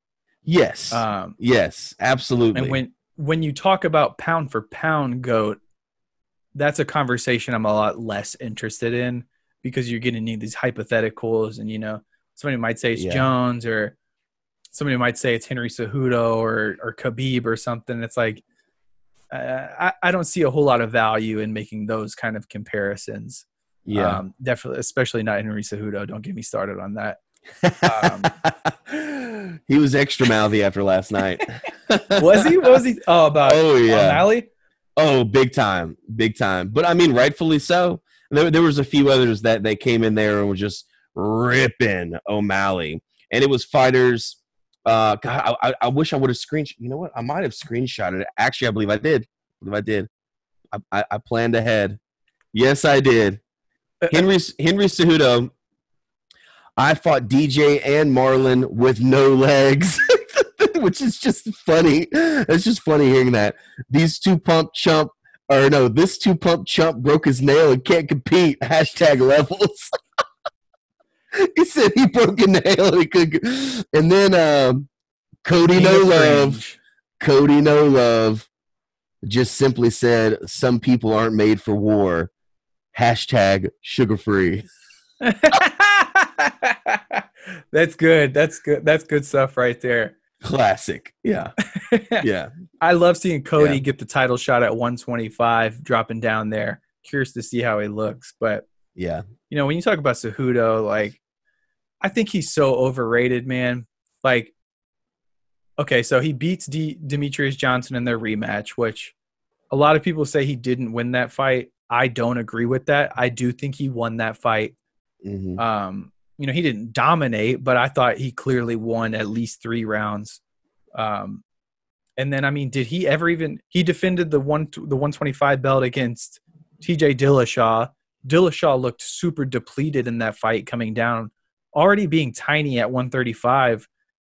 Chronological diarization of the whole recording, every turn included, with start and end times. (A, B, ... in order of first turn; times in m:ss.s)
0:00.4-0:02.8 A
0:00.9-0:01.4 B
0:02.5-0:05.6 B
0:06.6-0:14.0 B
0:13.0-0:13.3 A
0:14.7-0:18.4 B
0:19.3-0:27.2 B
0:23.9-0:24.2 A
0:27.6-0:32.4 A
0:27.8-0:28.4 B
0:32.2-0:34.5 B
0:33.4-0:34.3 A
0:35.0-0:50.1 A
0:50.7-0:52.0 A
0:52.5-0:53.4 A
0:54.1-0:55.5 A
0:56.8-1:09.9 A
1:11.4-1:14.9 A
1:15.4-1:16.6 A
1:15.7-1:16.8 B
1:17.2-1:18.5 A
1:19.2-1:22.3 A
1:22.9-1:24.7 A
1:25.2-1:30.2 B
1:30.4-1:31.6 A
1:31.6-1:32.2 B
1:32.2-1:32.5 A
1:32.8-1:38.7 B
1:33.6-1:33.8 A
1:39.0-1:39.3 A
1:39.5-1:41.2 B
1:42.0-1:44.5 B
1:45.8-1:49.2 B
1:49.7-1:54.8 B
1:55.2-1:55.6 A
1:55.6-2:00.4 B
2:01.0-2:01.4 B
2:02.2-2:13.9 B